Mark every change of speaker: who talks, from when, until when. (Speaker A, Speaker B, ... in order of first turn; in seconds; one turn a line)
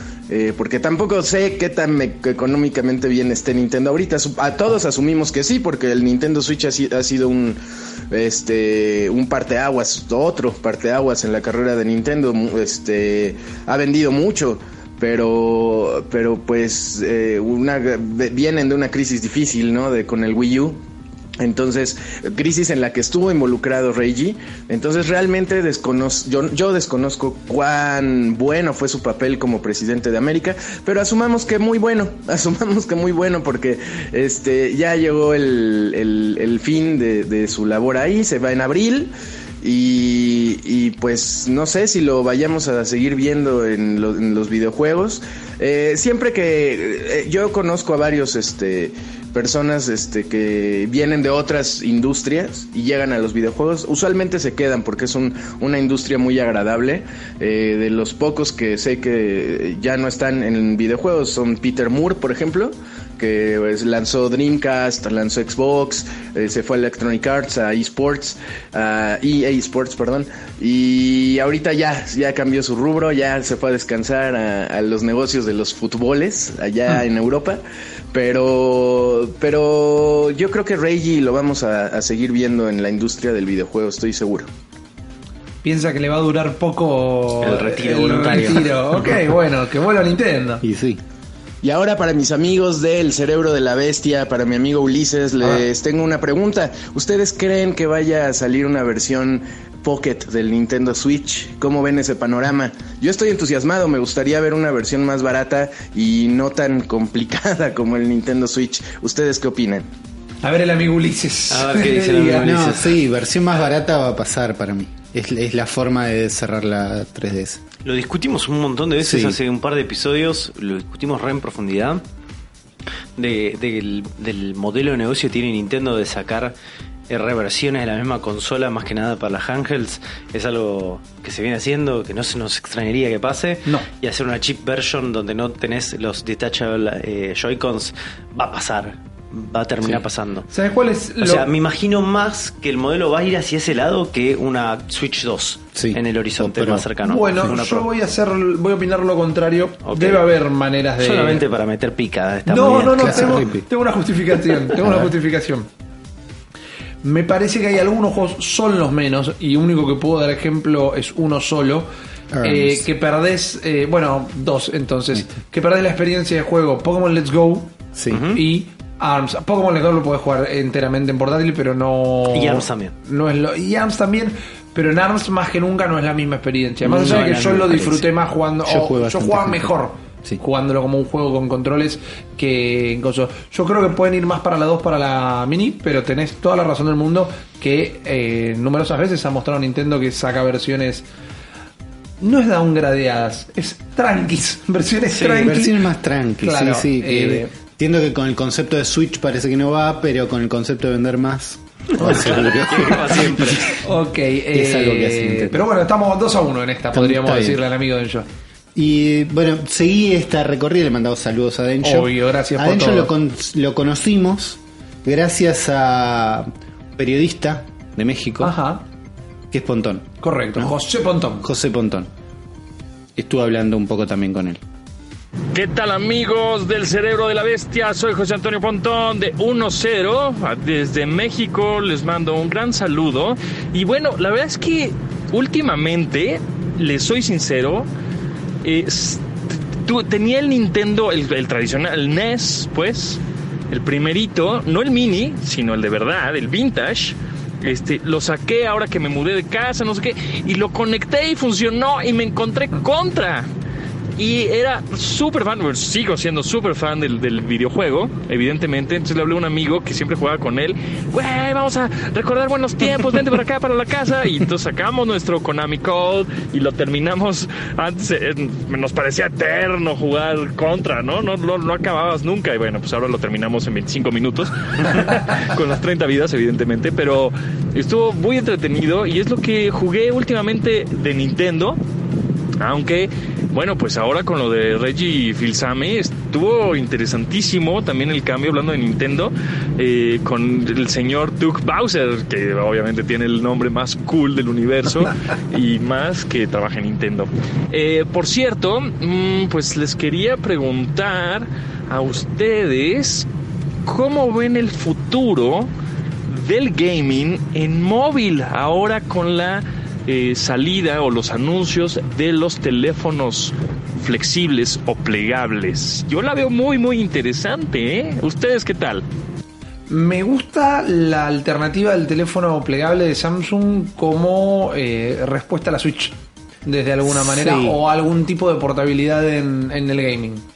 Speaker A: 0.3-7.6
Speaker A: 8.1-20.8
Speaker A: 21.4-77.6
Speaker A: 78.1-84.5
Speaker B: 85.6-90.6
Speaker C: 87.4-88.7
Speaker D: 90.6-91.0
Speaker A: 91.6-109.8
Speaker B: 110.4-112.5
Speaker C: 111.5-113.0
Speaker D: 112.4-117.6
Speaker C: 117.8-122.0
Speaker D: 119.0-119.4
Speaker C: 123.2-126.5
Speaker C: 127.1-140.5
Speaker B: 140.5-141.5
Speaker C: 141.2-147.9
Speaker D: 145.8-146.9
Speaker B: 147.0-151.4
Speaker C: 149.8-150.2
Speaker C: 151.0-153.5
Speaker B: 152.5-155.7
Speaker D: 152.7-153.7
Speaker D: 154.8-155.1
Speaker B: 157.0-161.9
Speaker D: 162.3-162.8
Speaker B: 162.4-167.7
Speaker D: 167.9-168.2
Speaker C: 168.1-168.4
Speaker B: 168.3-191.1
Speaker C: 172.3-172.9
Speaker C: 176.8-178.0
Speaker D: 178.7-180.4
Speaker B: 192.2-195.8
Speaker C: 195.2-195.5
Speaker D: 195.2-203.8
Speaker B: 196.4-197.5
Speaker C: 201.9-203.8
Speaker B: 203.7-208.3
Speaker D: 204.5-205.7
Speaker D: 206.9-207.6
Speaker D: 208.8-218.6
Speaker B: 211.8-213.1
Speaker B: 218.4-218.8
Speaker D: 219.5-220.7
Speaker B: 220.2-221.5
Speaker D: 221.4-222.1
Speaker D: 223.2-224.6
Speaker E: 225.5-237.9
Speaker E: 238.6-253.5
Speaker E: 254.2-281.8
Speaker E: 282.6-303.3
Speaker E: 303.9-305.7
Speaker E: 306.3-319.0
Speaker B: 319.9-330.4
Speaker D: 327.1-327.8